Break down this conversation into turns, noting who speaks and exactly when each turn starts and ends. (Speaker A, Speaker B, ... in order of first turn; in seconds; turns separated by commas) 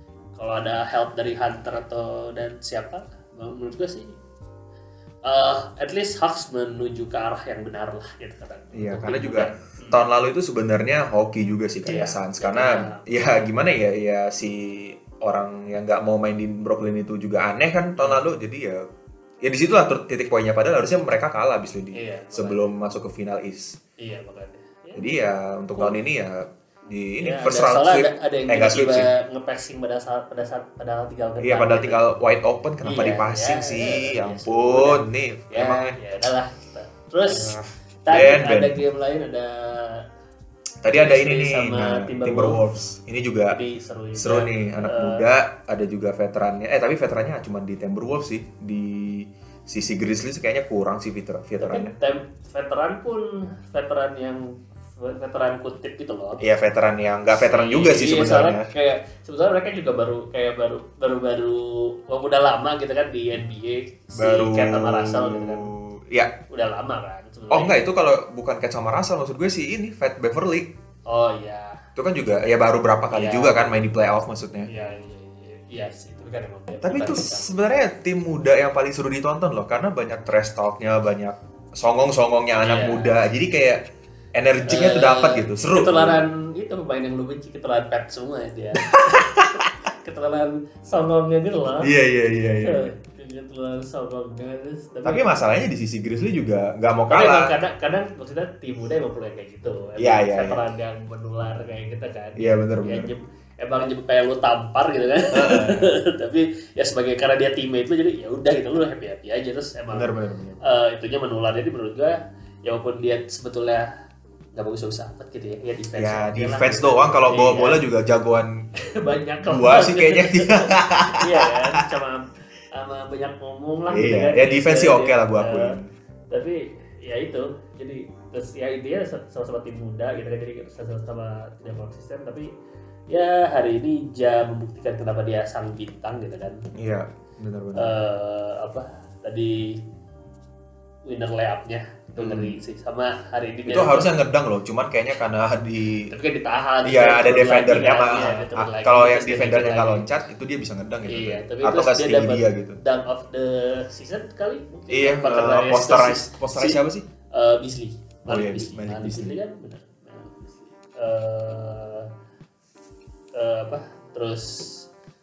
Speaker A: 0.4-4.2, Speaker A: 5.3-10.0, Speaker B: 8.7-18.8, Speaker A: 11.9-13.3, Speaker A: 18.0-18.2, Speaker B: 19.4-23.8, Speaker A: 21.9-22.7, Speaker A: 24.0-25.1, Speaker B: 24.9-29.1, Speaker A: 27.2-32.0, Speaker B: 31.4-36.0, Speaker A: 32.8-40.0, Speaker B: 37.3-38.8, Speaker B: 40.8-43.6, Speaker A: 40.9-42.6, Speaker A: 43.5-45.2, Speaker B: 44.2-51.9, Speaker A: 51.6-56.4, Speaker B: 56.4-58.7, Speaker A: 57.4-65.7, Speaker B: 64.2-66.3, Speaker A: 66.5-67.8, Speaker B: 67.5-70.7, Speaker A: 71.1-71.8, Speaker B: 72.0-74.7, Speaker A: 73.1-73.9, Speaker A: 74.7-77.6, Speaker B: 76.8-83.8, Speaker A: 82.6-83.1, Speaker B: 84.3-86.2, Speaker A: 84.6-91.9, Speaker B: 88.9-89.7, Speaker B: 91.8-92.9, Speaker A: 92.6-95.5, Speaker B: 95.0-97.5, Speaker A: 97.1-113.9, Speaker B: 100.0-100.6, Speaker B: 102.4-103.1, Speaker B: 105.3-105.9, Speaker B: 109.9-110.6, Speaker A: 114.5-117.8, Speaker B: 116.0-118.7, Speaker A: 118.8-125.8, Speaker B: 119.5-121.8, Speaker B: 123.9-125.9, Speaker A: 126.3-132.5, Speaker A: 133.1-136.6, Speaker B: 136.8-137.9, Speaker A: 137.8-139.8, Speaker A: 141.1-144.1, Speaker B: 142.2-142.6, Speaker B: 143.7-146.1, Speaker A: 146.1-150.1, Speaker B: 146.8-152.8, Speaker A: 151.1-156.8, Speaker B: 154.9-157.1, Speaker A: 157.3-162.1, Speaker B: 158.3-159.4, Speaker A: 163.3-164.9